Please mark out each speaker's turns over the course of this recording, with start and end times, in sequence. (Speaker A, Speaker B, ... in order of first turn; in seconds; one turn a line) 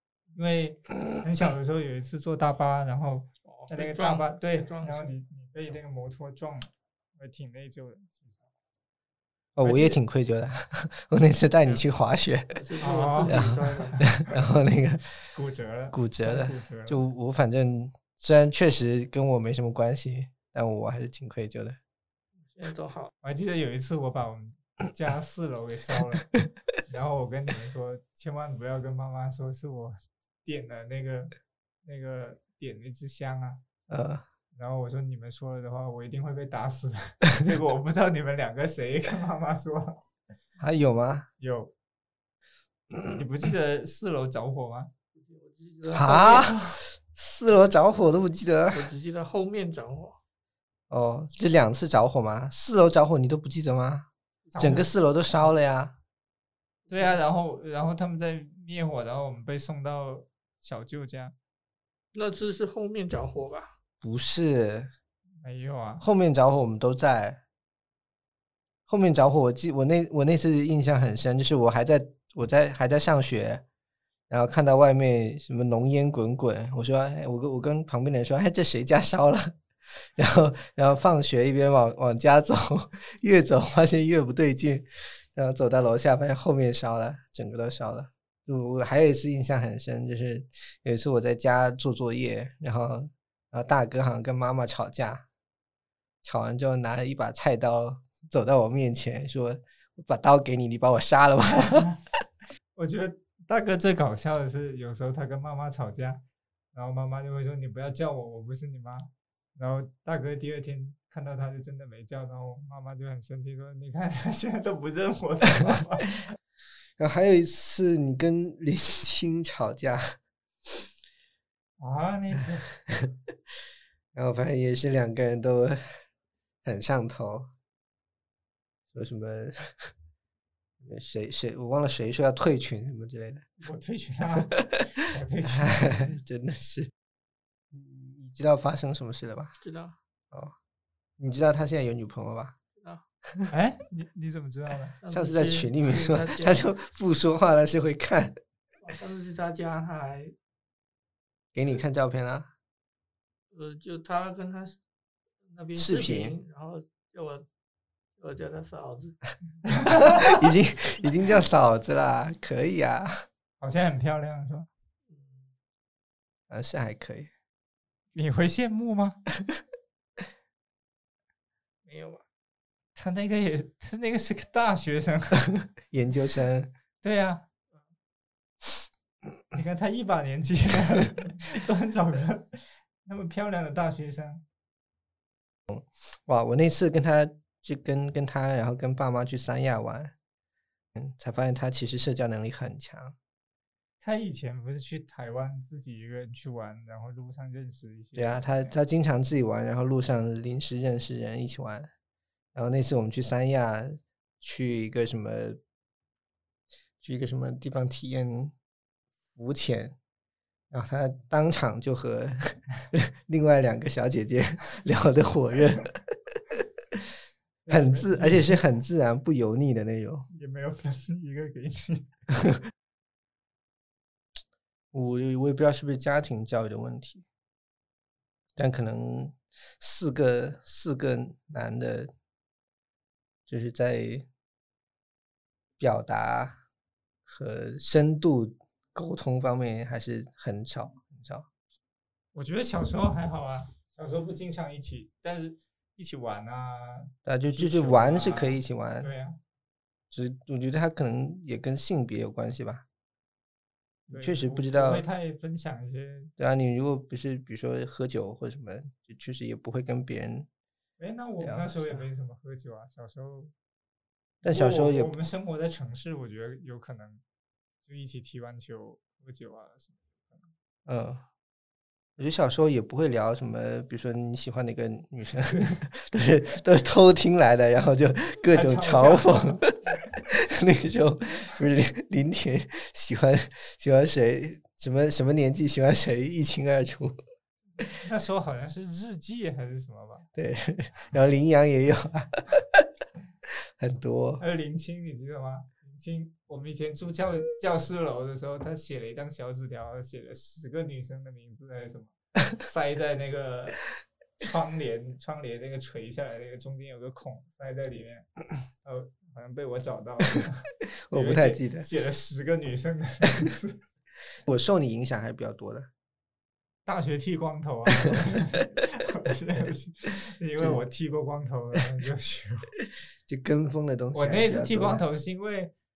Speaker A: 0.3-8.4
Speaker B: 3.4-5.2
Speaker C: 9.6-12.6
Speaker A: 9.6-10.0
Speaker B: 12.5-14.1
Speaker A: 12.8-14.5
Speaker C: 13.2-15.0
Speaker A: 15.3-17.0
Speaker C: 15.9-21.8
Speaker B: 22.4-23.1
Speaker A: 23.2-26.3
Speaker A: 26.9-31.3
Speaker A: 31.8-33.6
Speaker C: 33.9-34.2
Speaker A: 34.5-40.0
Speaker C: 40.6-41.3
Speaker A: 41.4-41.7
Speaker A: 43.1-44.9
Speaker B: 45.1-46.5
Speaker C: 45.9-48.9
Speaker A: 46.3-46.7
Speaker B: 48.7-50.2
Speaker C: 50.9-56.0
Speaker A: 54.5-55.5
Speaker B: 56.9-57.2
Speaker A: 56.9-61.4
Speaker B: 62.1-63.7
Speaker C: 64.0-64.9
Speaker A: 65.4-66.0
Speaker C: 66.0-67.4
Speaker C: 68.9-73.6
Speaker C: 74.3-79.5
Speaker C: 80.2-95.3
Speaker C: 96.2-101.9
Speaker A: 101.6-102.0
Speaker A: 102.8-106.2
Speaker A: 106.7-116.3
Speaker C: 117.0-120.2
Speaker A: 121.8-122.8
Speaker C: 124.1-126.0
Speaker C: 126.6-127.5
Speaker C: 128.9-129.9
Speaker C: 130.8-133.5
Speaker A: 133.6-136.1
Speaker C: 135.5-136.9
Speaker C: 137.7-139.6
Speaker B: 139.6-140.0
Speaker C: 141.2-142.6
Speaker B: 142.8-143.0
Speaker A: 143.5-144.9
Speaker B: 145.0-146.6
Speaker C: 145.1-148.4
Speaker B: 148.8-150.3
Speaker C: 151.5-152.5
Speaker B: 153.5-154.8
Speaker B: 155.4-157.5
Speaker C: 155.7-156.3
Speaker B: 158.2-159.2
Speaker A: 159.7-160.3
Speaker C: 159.8-163.1
Speaker A: 163.6-164.7
Speaker B: 165.1-165.5
Speaker C: 166.5-167.3
Speaker A: 168.1-169.2
Speaker B: 171.8-172.2
Speaker A: 172.9-175.6
Speaker C: 175.9-176.7
Speaker A: 177.0-177.4
Speaker A: 179.5-184.4
Speaker C: 185.7-190.1
Speaker C: 190.9-193.2
Speaker A: 194.0-198.8
Speaker C: 198.2-201.9
Speaker C: 202.5-205.6
Speaker C: 207.0-208.5
Speaker C: 209.3-209.9
Speaker C: 210.7-217.0
Speaker A: 217.7-218.6
Speaker C: 217.7-220.3
Speaker A: 220.3-222.1
Speaker C: 224.9-227.2
Speaker C: 228.6-232.1
Speaker C: 233.5-234.3
Speaker C: 235.8-236.6
Speaker C: 237.2-241.5
Speaker A: 242.3-249.4
Speaker C: 247.2-249.1
Speaker C: 250.1-252.8
Speaker A: 254.1-256.3
Speaker C: 254.1-255.0
Speaker C: 256.4-260.5
Speaker A: 261.0-263.5
Speaker C: 261.4-262.1
Speaker C: 264.4-265.1
Speaker A: 264.4-267.2
Speaker A: 267.8-270.5
Speaker C: 270.9-271.2
Speaker C: 272.2-279.8
Speaker A: 278.4-279.6
Speaker C: 280.3-287.1
Speaker A: 287.9-290.3
Speaker C: 290.4-292.9
Speaker C: 293.8-294.4
Speaker A: 294.4-303.9
Speaker A: 304.4-308.2
Speaker A: 308.8-313.8
Speaker C: 311.1-311.9
Speaker C: 314.4-315.9
Speaker A: 316.9-322.7
Speaker C: 323.3-325.1
Speaker A: 324.1-325.7